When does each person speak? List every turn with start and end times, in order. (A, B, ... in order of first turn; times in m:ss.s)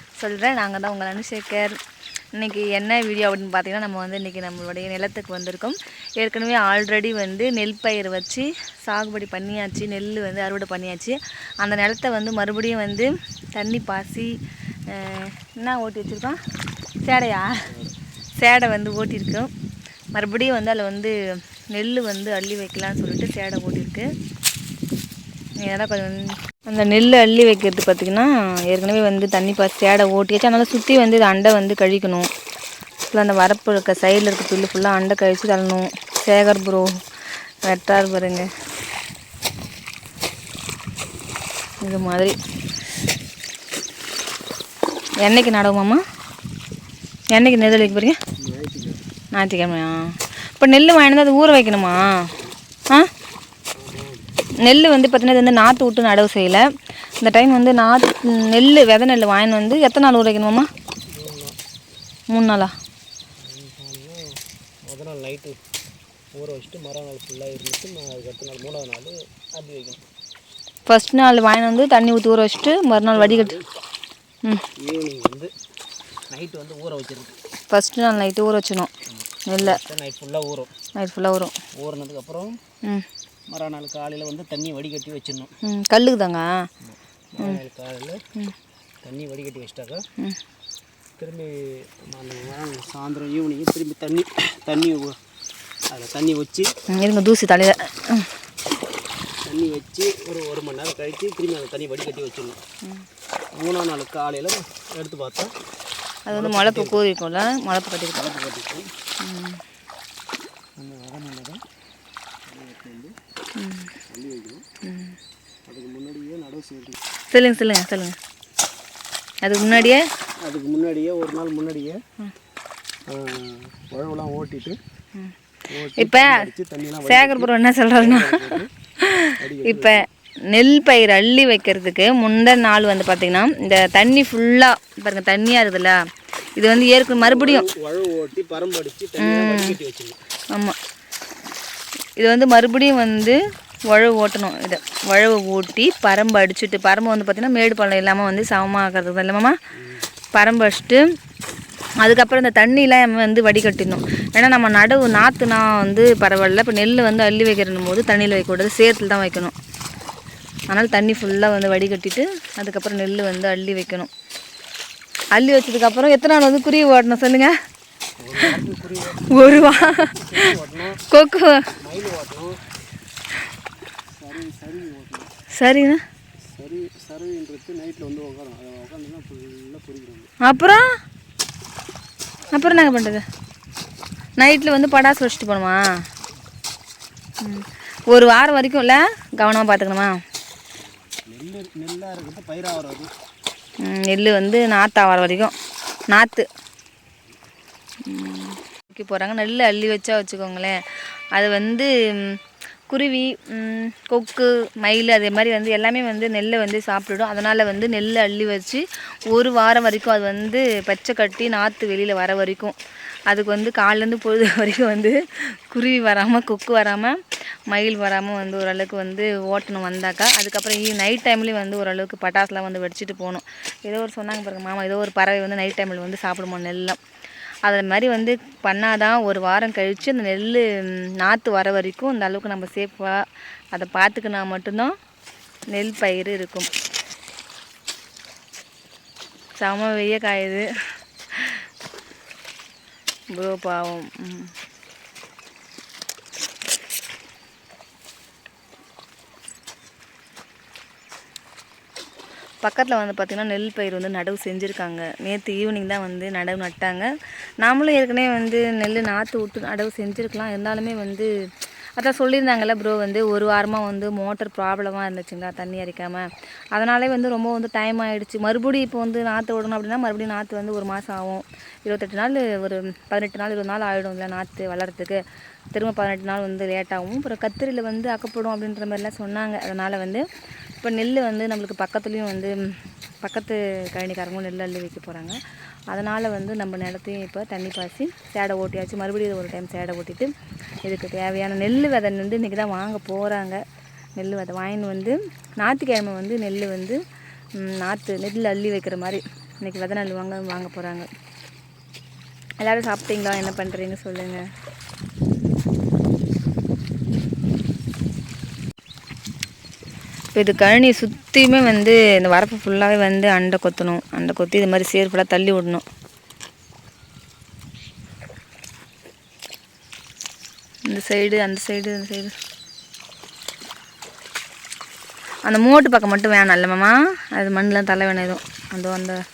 0:00.2-0:01.8 A
0:02.3-0:14.4 A
0:14.9-0:16.4 A
0:17.0-0:17.7 A
0:18.4-0:19.5 A
0:20.1-0:21.1 A
0:21.7-0:24.1 A
0:25.6-0:32.3 A
0:33.1-0:37.0 A
0:37.6-0:38.5 A
0:41.8-0:42.4 A
0:45.2-0:46.0 A
0:47.3-0:48.2 A
0:47.6-0:49.0 B
0:49.3-0:52.3 A
0:53.8-0:54.2 B
0:54.6-0:56.6 A
0:57.2-1:00.7 A
1:01.1-1:01.6 B
1:02.3-1:02.7 A
1:03.4-1:05.6 B
1:06.3-1:10.0 B
1:10.9-1:13.5 A
1:12.9-1:13.6 B
1:14.8-1:15.5 B
1:16.3-1:17.4 B
1:17.7-1:18.9 A
1:19.1-1:20.7 B
1:19.5-1:19.8 A
1:21.0-1:21.5 A
1:21.7-1:22.6 B
1:23.5-1:25.5 B
1:25.6-1:26.6 A
1:26.8-1:28.2 B
1:29.0-1:30.0 B
1:31.2-1:35.2 B
1:35.9-1:36.7 B
1:36.9-1:38.3 A
1:39.4-1:42.6 B
1:43.6-1:45.5 B
1:46.2-1:48.2 A
1:46.3-1:47.0 B
1:48.1-1:48.9 B
1:49.2-1:49.6 A
1:50.8-1:51.6 B
1:52.4-1:53.2 B
1:53.6-1:53.9 A
1:54.1-1:54.6 B
1:54.8-1:55.2 A
1:55.6-1:57.0 B
1:57.3-1:58.2 A
1:59.4-2:00.0 A
2:00.4-2:02.0 B
2:03.1-2:04.8 B
2:05.7-2:08.7 B
2:06.0-2:06.5 A
2:07.0-2:16.0 A
2:09.4-2:10.0 B
2:16.6-2:17.7 A
2:17.0-2:20.2 B
2:19.2-2:19.8 A
2:22.2-2:23.4 A
2:23.9-2:29.6 A
2:29.8-2:30.0 B
2:30.3-2:31.0 A
2:32.0-2:39.6 A
2:40.7-2:44.1 A
2:45.3-2:47.5 A
2:48.2-2:51.0 B
2:49.2-2:50.5 A
2:51.1-2:51.7 A
2:51.8-2:52.6 B
2:54.2-2:55.3 B
2:55.5-2:56.0 A
2:56.5-3:00.3 B
3:00.4-3:00.8 A
3:02.5-3:03.2 B
3:02.5-3:03.2 A
3:04.4-3:05.8 A
3:07.4-3:10.2 A
3:11.1-3:13.1 B
3:13.8-3:15.5 A
3:16.1-3:16.5 A
3:18.0-3:32.7 A
3:33.3-3:47.0 A
3:47.6-3:54.9 A
3:55.7-3:56.7 A
3:59.6-4:00.7 A
4:01.3-4:01.6 A
4:03.3-4:04.5 A
4:12.6-4:17.1 A
4:17.6-4:21.3 A
4:22.0-4:35.2 A
4:35.7-4:40.2 A
4:40.8-4:45.4 A
4:45.9-4:50.3 A
4:50.8-4:53.6 A
4:54.2-4:57.0 A
4:57.6-5:01.1 A
5:02.6-5:04.4 A
5:10.3-5:15.8 A
5:20.9-5:22.3 A
5:25.4-5:29.2 A